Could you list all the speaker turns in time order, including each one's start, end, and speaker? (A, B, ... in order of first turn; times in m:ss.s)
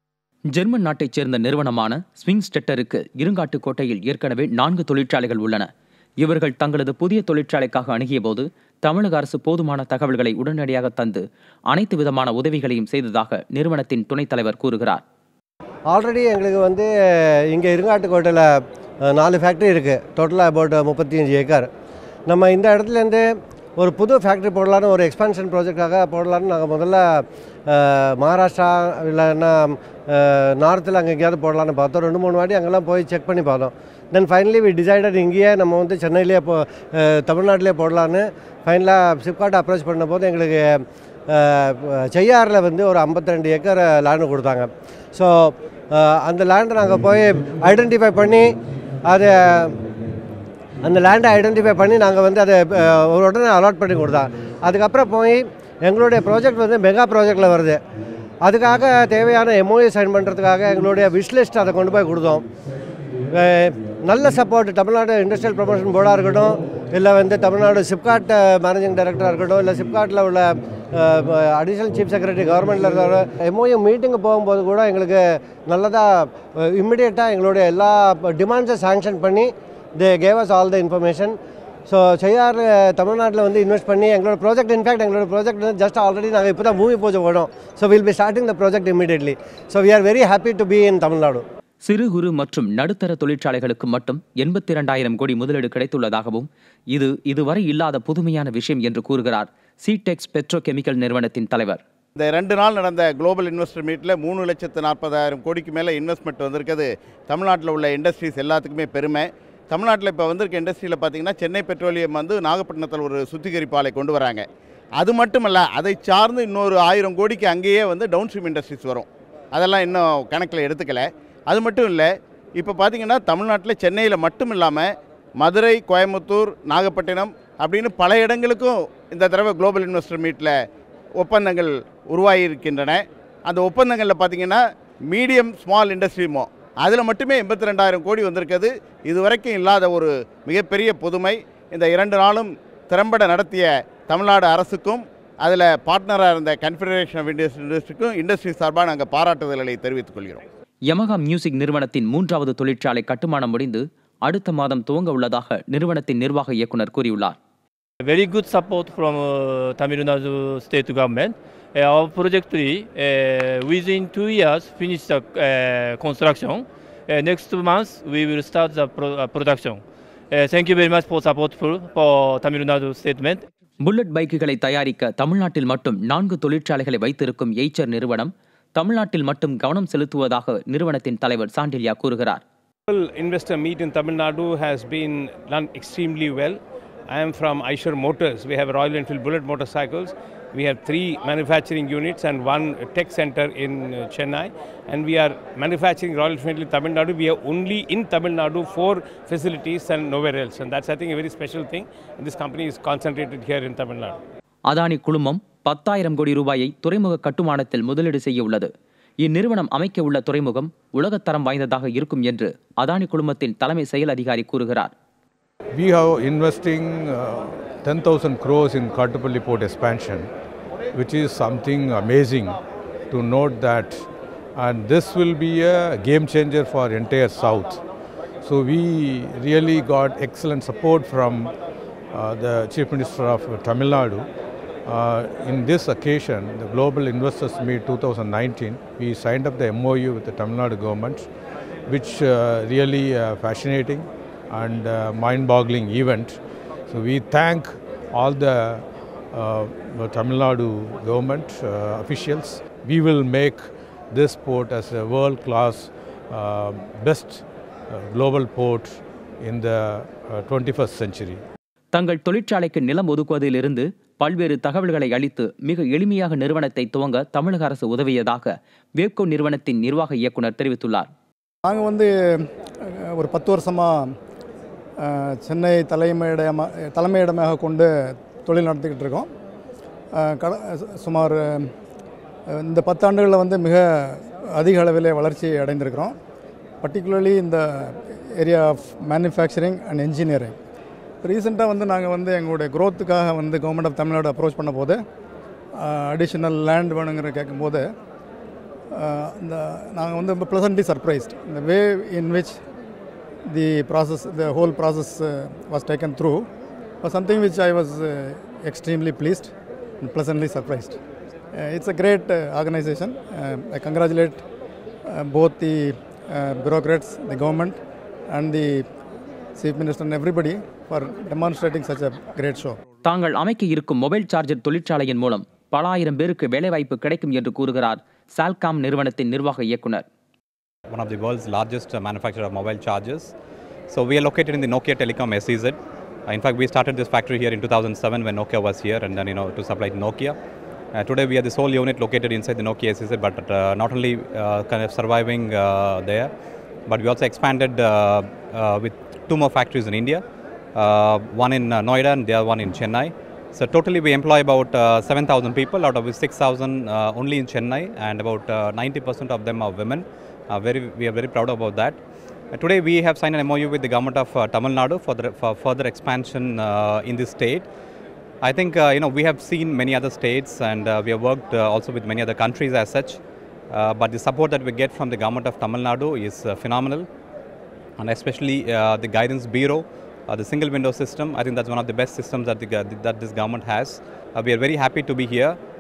0:00.5-0:05.7 A
0:06.2-0:15.0 A
0:15.9-0:16.9 B
0:17.5-0:18.5 B
0:19.1-0:21.7 B
0:22.3-0:23.2 B
0:23.8-0:48.5 B
0:49.1-0:49.7 B
0:50.8-0:57.8 B
0:58.4-1:02.4 B
1:03.3-1:21.4 B
1:21.9-1:31.4 B
1:31.8-1:41.8 A
1:42.2-1:54.4 C
1:55.0-2:10.6 C
2:11.2-2:30.4 C
2:30.9-2:37.4 A
2:38.0-2:53.4 D
2:53.8-3:02.4 A
3:02.9-3:24.2 E
3:24.7-3:28.7 A
3:29.2-3:34.9 A
3:35.7-3:40.3 F
3:40.9-3:42.6 F
3:43.1-3:44.0 F
3:44.6-3:47.8 F
3:48.4-3:51.5 F
3:52.1-3:54.3 F
3:54.9-4:01.3 F
4:01.9-4:21.4 F
4:21.9-4:31.1 A
4:31.6-4:32.1 G
4:33.2-4:34.0 G
4:35.0-4:39.3 G
4:40.2-4:41.7 G
4:42.6-4:46.1 G
4:46.8-4:50.6 G
4:51.2-4:55.0 G
4:55.8-4:57.9 G
4:58.9-5:02.6 G
5:03.5-5:06.5 G
5:07.0-5:11.0 G
5:11.6-5:14.4 G
5:15.2-5:17.8 G
5:18.3-5:18.8 G
5:19.6-5:22.8 G
5:23.0-5:30.0 A
5:30.9-5:33.3 H
5:33.9-5:35.8 H
5:36.3-5:40.3 H
5:41.0-5:46.3 H
5:46.9-5:50.2 H
5:50.8-6:02.0 H
6:02.5-6:07.7 H
6:08.4-6:13.2 H
6:13.7-6:17.1 H
6:18.0-6:25.6 H